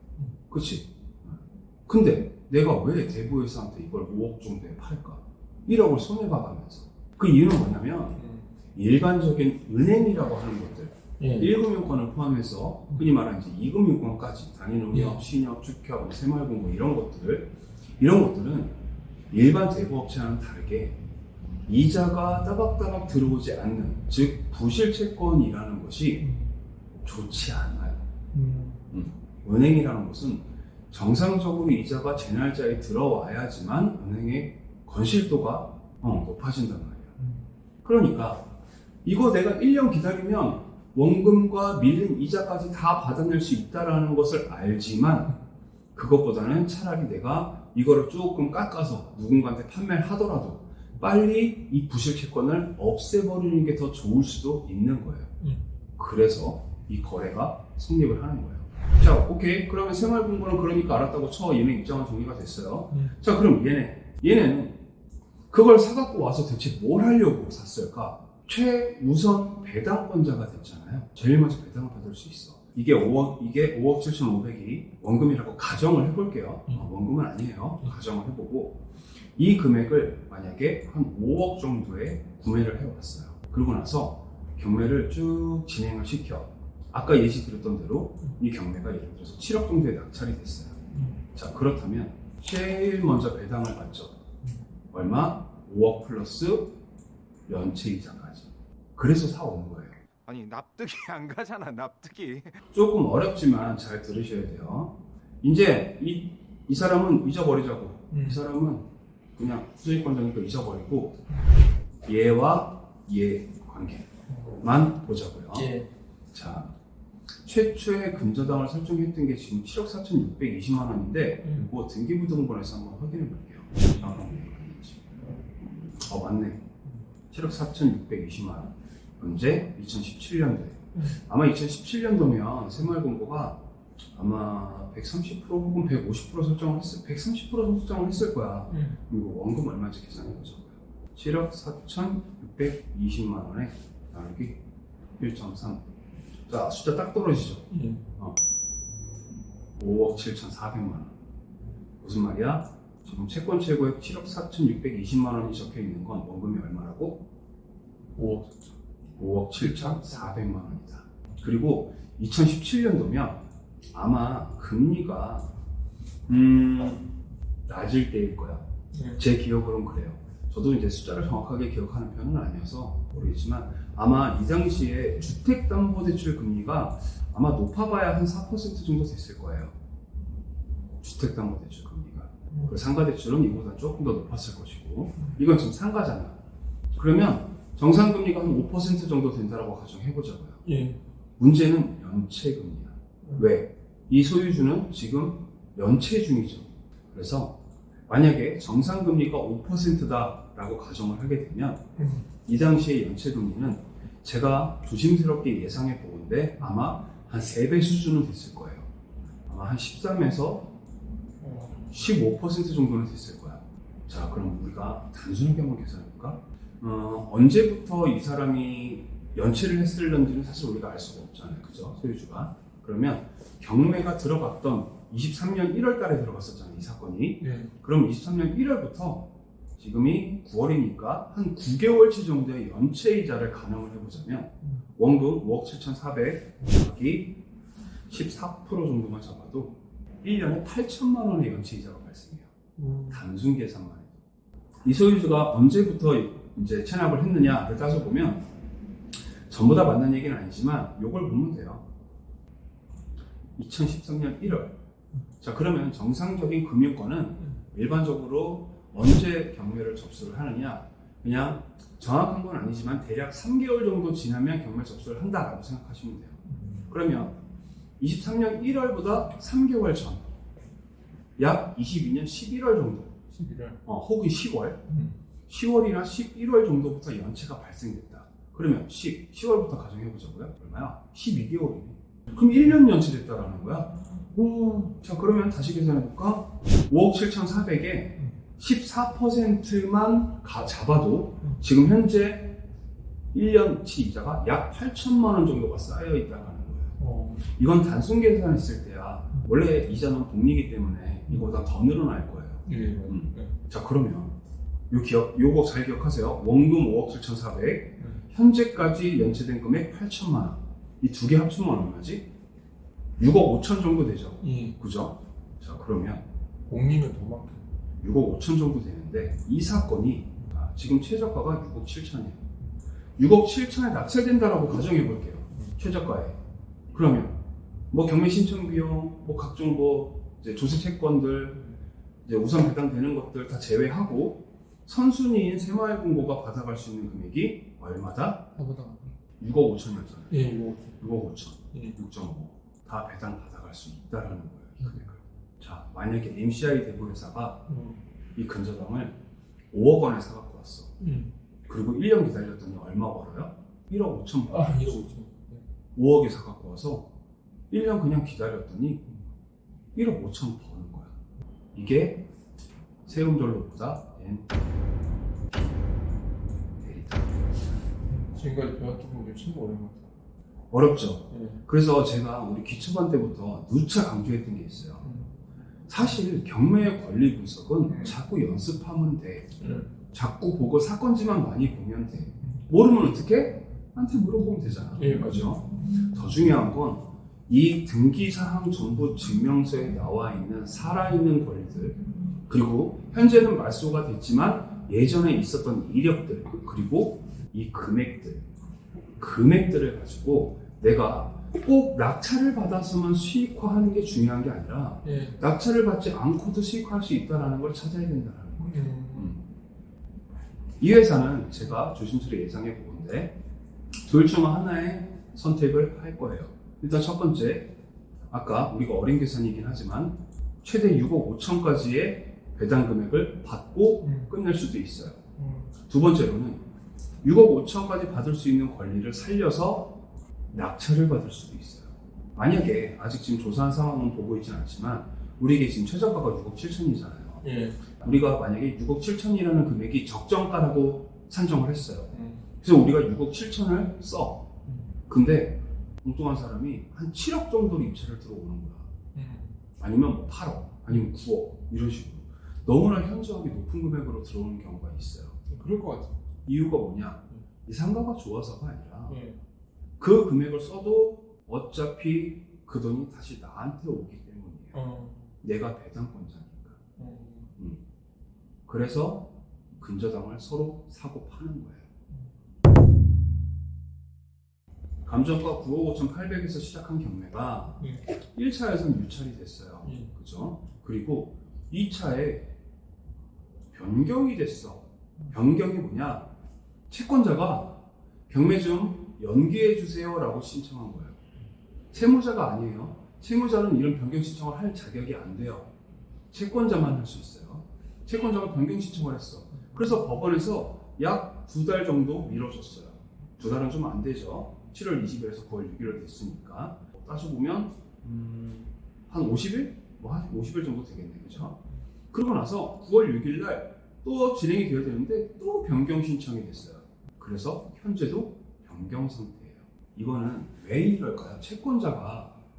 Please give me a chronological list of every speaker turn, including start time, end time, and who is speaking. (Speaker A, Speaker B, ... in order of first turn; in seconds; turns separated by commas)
Speaker A: 0.5-8.2, Speaker B: 8.2-8.4, Speaker A: 8.7-18.8, Speaker B: 11.2-11.5, Speaker B: 14.9-15.2, Speaker A: 19.3-21.0, Speaker A: 21.7-26.3, Speaker B: 26.2-26.5, Speaker A: 27.0-28.0, Speaker B: 28.3-28.8, Speaker A: 28.9-37.1, Speaker A: 37.8-38.5, Speaker A: 39.0-45.3, Speaker A: 45.9-55.3, Speaker A: 56.0-64.8, Speaker A: 65.5-78.8, Speaker A: 79.3-90.8, Speaker A: 91.3-94.1, Speaker A: 94.9-96.7, Speaker A: 97.5-100.0, Speaker C: 100.2-102.4, Speaker A: 102.7-111.2, Speaker B: 108.1-108.4, Speaker A: 112.0-114.1, Speaker A: 114.6-115.7, Speaker B: 115.5-115.9, Speaker A: 116.3-116.7, Speaker A: 117.4-125.0, Speaker A: 126.0-126.6, Speaker A: 127.3-133.6, Speaker A: 134.1-144.6, Speaker B: 138.7-139.0, Speaker A: 145.2-145.8, Speaker A: 146.5-148.4, Speaker B: 147.7-148.1, Speaker A: 149.8-151.1, Speaker A: 152.0-157.2, Speaker B: 158.2-158.7, Speaker A: 159.2-163.4, Speaker B: 159.6-160.1, Speaker A: 163.9-165.5, Speaker A: 166.3-167.1, Speaker A: 167.7-168.6, Speaker B: 168.9-169.2, Speaker A: 169.2-179.7, Speaker A: 181.0-186.4, Speaker A: 186.9-190.6, Speaker B: 190.6-191.0, Speaker A: 191.4-197.6, Speaker A: 198.1-201.8, Speaker B: 202.0-202.2, Speaker A: 202.4-208.9, Speaker A: 209.5-210.7, Speaker B: 211.4-211.8, Speaker A: 211.9-237.4, Speaker B: 227.4-227.7, Speaker A: 238.1-242.5, Speaker B: 242.8-243.2, Speaker A: 243.1-244.2, Speaker A: 244.8-248.4, Speaker A: 249.5-251.8, Speaker A: 253.6-254.8, Speaker A: 255.4-266.4, Speaker B: 266.4-266.9, Speaker A: 266.9-267.3, Speaker A: 268.0-270.3, Speaker A: 271.4-273.1, Speaker B: 273.3-273.8, Speaker A: 273.8-274.9, Speaker B: 274.9-275.2, Speaker A: 275.5-284.0, Speaker B: 284.3-284.9, Speaker A: 284.9-292.6, Speaker A: 293.3-304.3, Speaker B: 297.0-297.4, Speaker B: 302.6-303.5, Speaker A: 304.9-312.2, Speaker A: 313.2-316.2, Speaker B: 314.4-314.8, Speaker B: 316.7-317.6, Speaker A: 318.0-322.4, Speaker A: 323.2-326.4, Speaker A: 326.9-331.6, Speaker A: 332.2-338.5, Speaker B: 338.5-339.1, Speaker A: 339.4-340.4, Speaker B: 340.3-341.0, Speaker A: 341.0-347.6, Speaker B: 347.7-348.0, Speaker A: 348.4-349.1, Speaker A: 349.7-350.9, Speaker B: 351.0-351.3, Speaker A: 351.7-355.1, Speaker B: 354.5-355.6, Speaker A: 355.9-357.1, Speaker A: 357.7-359.1, Speaker A: 359.9-361.1, Speaker A: 361.7-362.2, Speaker A: 363.1-364.5, Speaker A: 366.8-367.6, Speaker B: 368.1-370.0, Speaker A: 370.7-375.0, Speaker B: 371.3-371.6, Speaker B: 375.0-375.3, Speaker A: 375.9-379.5, Speaker B: 377.9-378.2, Speaker B: 379.6-379.9, Speaker A: 380.1-398.4, Speaker B: 385.0-385.6, Speaker A: 399.2-409.4, Speaker B: 405.0-405.4, Speaker B: 408.6-409.3, Speaker A: 410.8-413.3, Speaker A: 414.0-417.7, Speaker A: 418.3-425.2, Speaker B: 424.0-424.3, Speaker B: 425.4-425.7, Speaker A: 425.9-426.6, Speaker A: 427.2-430.0, Speaker A: 430.5-437.4, Speaker B: 437.4-437.8, Speaker A: 437.9-444.5, Speaker B: 442.1-442.4, Speaker B: 444.7-444.9, Speaker A: 445.1-448.9, Speaker B: 449.1-449.6, Speaker A: 449.8-455.5, Speaker B: 455.5-456.2, Speaker A: 456.4-459.2, Speaker B: 459.1-459.4, Speaker A: 460.0-464.8, Speaker B: 464.7-465.2, Speaker A: 465.4-466.8, Speaker B: 467.0-467.5, Speaker A: 468.7-471.8, Speaker A: 475.0-482.5, Speaker B: 477.8-478.1, Speaker B: 479.8-480.1, Speaker A: 483.7-486.3, Speaker A: 486.9-491.2, Speaker A: 491.9-495.7, Speaker A: 496.3-511.6, Speaker B: 499.7-500.0, Speaker A: 512.1-522.3